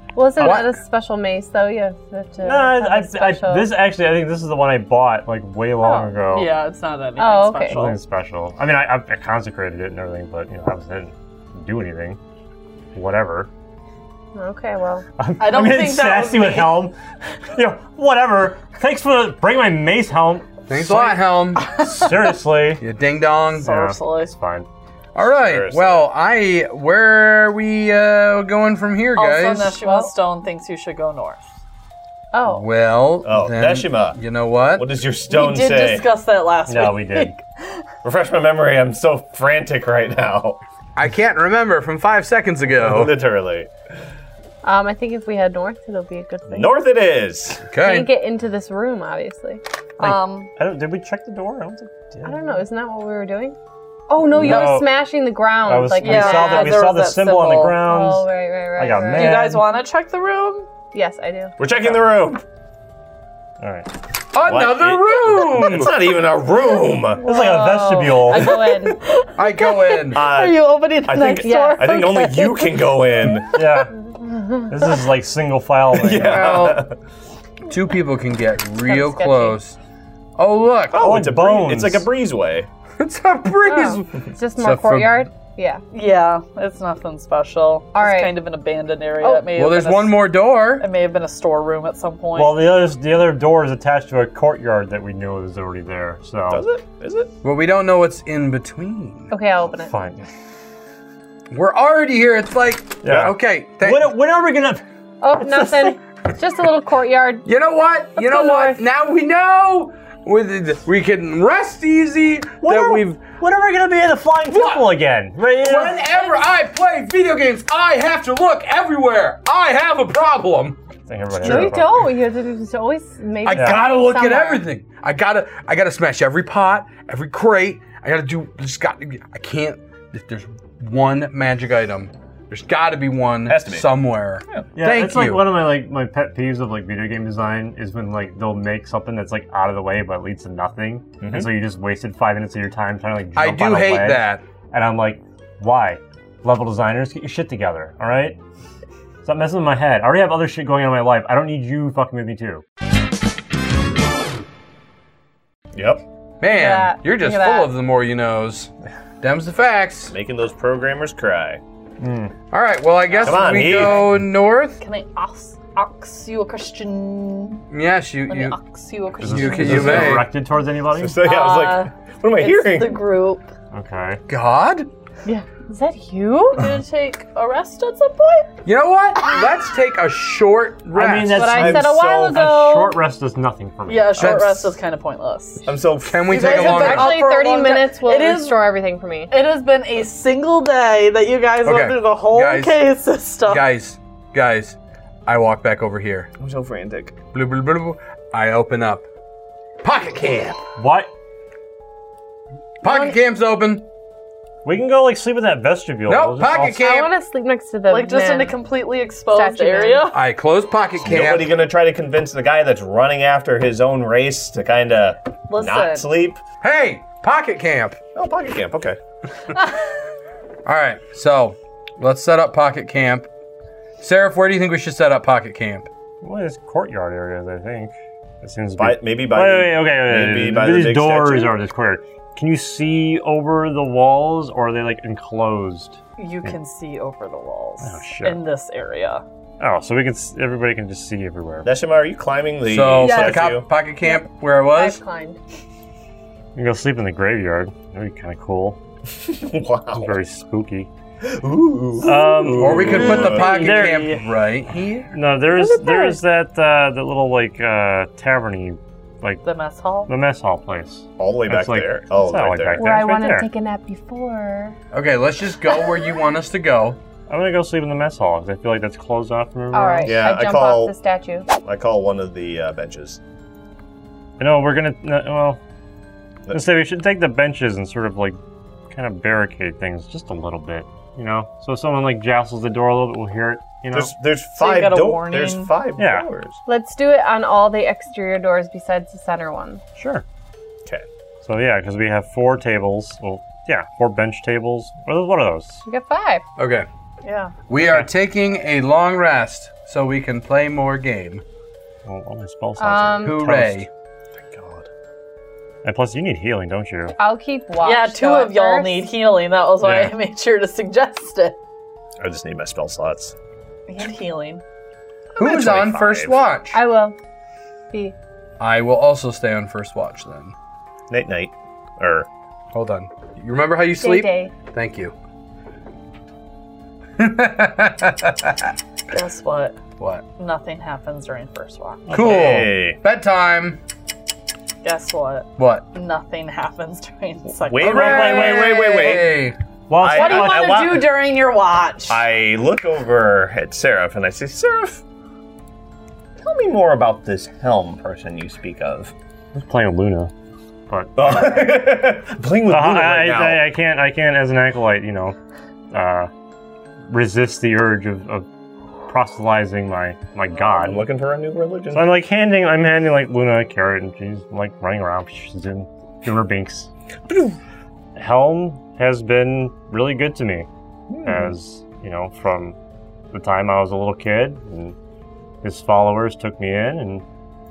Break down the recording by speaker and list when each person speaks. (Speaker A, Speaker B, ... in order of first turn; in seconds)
Speaker A: 0.1-3.8, 5.8-6.2, 7.2-7.9, 14.3-15.1, 29.8-30.1, 32.3-32.7, 44.6-46.8, 47.8-49.6, 52.2-53.6, 54.1-57.0, 57.8-59.5, 60.9-61.6, 67.2-69.0, 71.4-71.9, 74.2-74.8, 76.2-76.8, 78.8-79.6, 83.7-85.8, 88.0-88.3, 89.2-89.5, 99.3-99.9, 105.2-107.5, 108.2-108.8, 121.4-124.7, 156.5-157.7, 175.3-176.8, 181.3-183.0, 186.3-189.3, 206.8-208.6, 209.3-210.1, 242.9-245.4, 255.5-256.2, 262.8-264.8, 269.7-271.5, 286.7-289.8, 295.9-296.4, 302.8-303.4, 307.2-309.1, 316.7-317.2, 324.0-324.5
Speaker B: 0.4-0.7, 20.7-21.7, 22.8-23.7, 25.2-29.8, 32.5-34.9, 41.0-43.1, 47.7-48.1, 64.3-65.9, 69.4-70.2, 77.7-79.8, 80.4-81.1, 83.0-85.3, 89.5-90.8, 97.4-99.3, 101.5-104.2, 107.5-113.2, 114.5-114.9, 115.6-120.8, 121.3-121.8, 123.5-135.4, 143.4-144.4, 156.4-160.1, 162.5-164.8, 167.7-168.6, 169.2-170.3, 174.3-174.9, 178.7-181.5, 184.2-184.7, 186.1-187.1, 191.7-192.8, 193.5-196.3, 197.3-199.1, 199.8-200.6, 202.8-203.9, 206.1-207.1, 210.1-211.5, 216.6-218.0, 220.7-223.3, 224.0-225.9, 242.7-245.0, 252.1-255.1, 264.9-267.0, 296.6-296.9, 297.7-301.4, 303.2-303.9, 315.4-316.8, 318.6-320.5, 322.7-325.1, 327.2-328.7, 330.0-330.2, 332.1-333.8, 335.6-335.9, 337.8-339.6
Speaker C: 2.4-6.5, 7.7-12.2, 12.9-13.5, 15.2-17.0, 17.5-21.2, 21.7-22.8, 23.6-24.7, 36.7-37.4, 50.0-52.4, 54.3-55.0, 55.6-59.7, 63.6-63.9, 67.2-68.6, 73.5-73.9, 74.7-76.7, 81.0-82.1, 92.3-96.7, 99.7-100.2, 103.0-104.8, 105.3-106.0, 112.6-116.3, 121.1-122.1, 123.5-123.9, 134.8-148.4, 149.2-152.6, 162.0-162.3, 163.5-164.0, 169.2-171.2, 173.7-174.2, 180.9-184.6, 200.8-201.1, 204.6-206.8, 226.2-236.5, 237.8-238.4, 239.6-241.7, 246.6-248.8, 249.9-250.9, 252.0-254.3, 255.1-259.4, 260.1-263.5, 267.3-270.2, 274.4-275.6, 276.5-278.4, 278.9-284.1, 286.0-286.3, 290.0-290.2, 291.4-295.8, 297.8-298.1, 302.1-303.9, 305.8-307.2, 309.8-310.1, 332.1-332.6, 337.9-339.1, 339.9-340.8, 349.5-350.3, 350.9-351.6, 352.7-355.4, 355.9-356.3, 357.1-358.5, 359.1-361.0, 361.9-366.9, 368.1-370.7, 371.2-372.8, 373.3-375.0, 375.6-377.2
Speaker D: 6.3-8.0, 15.4-16.9, 21.6-22.1, 23.6-24.3, 29.1-31.4, 35.3-37.8, 50.0-50.5, 54.5-54.7, 56.0-57.8, 59.2-60.7, 67.3-73.6, 85.9-92.7, 164.8-167.7, 168.3-170.2, 171.2-173.5, 176.5-178.5, 183.9-185.7, 186.3-188.7, 189.3-193.7, 202.9-203.2, 207.9-210.2, 215.5-216.1, 236.2-239.2, 259.4-260.1, 284.6-285.7, 297.2-297.6, 307.8-311.6, 313.9-314.6, 329.1-329.8, 330.4-332.1, 334.8-338.6, 340.0-342.2
Speaker E: 25.2-26.1, 33.2-34.2, 34.8-36.1, 38.0-40.6, 42.8-43.7, 46.5-47.6, 61.6-62.4, 64.4-67.2, 70.1-73.6, 75.9-77.0, 80.9-82.7, 96.5-97.3, 133.5-133.9, 141.2-141.5, 155.7-156.0, 160.1-161.6, 163.2-164.1, 169.7-170.2, 170.9-173.0, 181.4-182.4, 185.7-187.1, 196.4-197.2, 211.0-216.4, 218.2-219.0, 228.8-231.6, 241.7-243.7, 249.2-250.2, 251.2-253.9, 261.2-262.9, 270.1-270.9, 271.6-273.2, 283.9-286.6, 304.4-304.9, 312.2-313.4, 315.4-316.4, 321.1-322.3, 332.1-333.0, 337.6-339.4, 340.0-341.1, 342.1-345.0, 346.4-349.1, 351.2-353.6, 360.6-362.2, 367.3-367.6, 371.1-371.6